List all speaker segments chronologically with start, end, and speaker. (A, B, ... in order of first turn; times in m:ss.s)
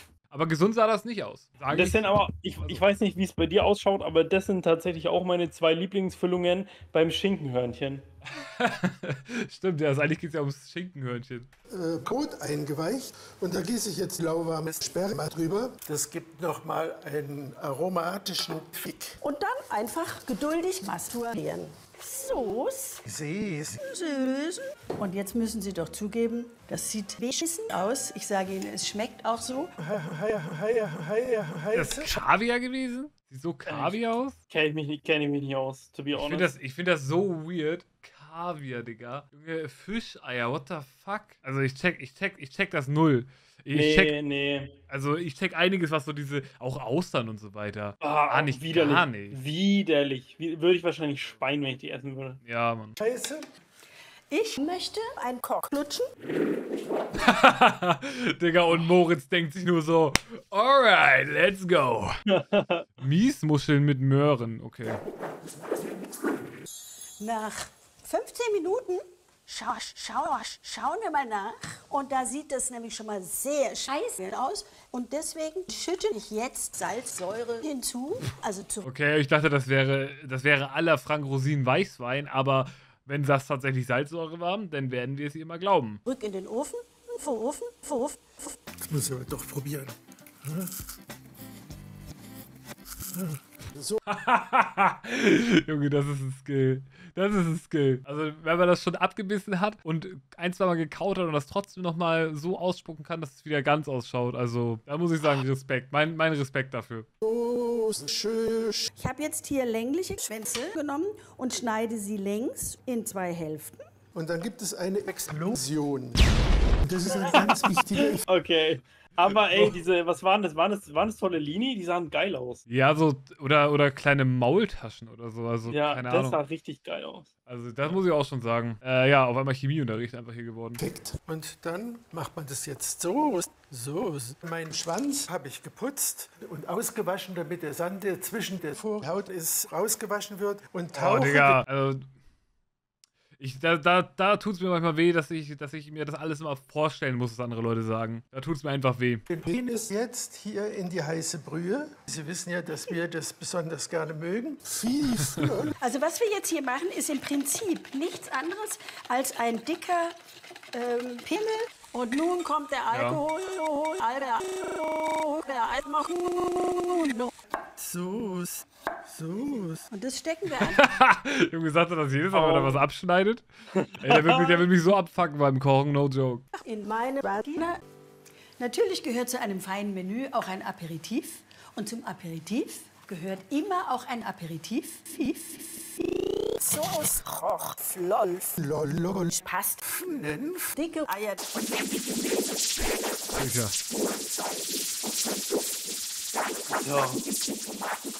0:00.3-0:02.1 A
0:01.7-0:08.0 B
0:08.3-0:11.5 A
0:11.7-0:19.2 C
0:19.2-0:23.0 D
0:23.0-0:23.8 C
0:23.8-0:29.7 D
0:29.8-0:32.2 C
0:31.8-0:34.4 A
0:33.7-0:36.5 B
0:36.2-0:44.1 A
0:43.7-0:44.7 B
0:44.9-0:49.4 A
0:48.0-0:52.4 B
0:52.4-0:53.0 A
0:53.0-0:53.4 C
0:54.3-0:56.1 D
0:57.1-1:02.2 A
1:02.3-1:02.9 B
1:03.0-1:05.0 A
1:07.2-1:18.9 D
1:18.8-1:26.0 A
1:26.0-1:28.6 D
1:28.8-1:30.7 C
1:33.1-1:34.0 C
1:34.1-1:47.1 A
1:47.2-1:48.9 C
1:49.0-1:53.8 D
1:54.1-1:56.3 C
1:56.8-1:58.2 C
1:58.2-2:02.6 B
2:02.7-2:06.4 A
2:05.7-2:07.3 B
2:07.5-2:10.8 A
2:10.8-2:21.6 C
2:20.9-2:22.1 A
2:23.4-2:29.3 A
2:29.3-2:35.8 C
2:35.8-2:40.2 D
2:40.7-2:47.3 D
2:42.9-2:43.2 A
2:47.8-2:49.8 C
2:49.9-2:50.8 D
2:50.6-2:53.4 A
2:52.3-2:52.8 B
2:53.8-2:54.7 B
2:54.0-2:56.4 A
2:56.6-2:57.8 D
2:58.6-3:08.6 D
3:08.6-3:10.8 C
3:09.3-3:09.8 D
3:10.8-3:11.5 D
3:13.3-3:13.8 A
3:16.7-3:17.2 B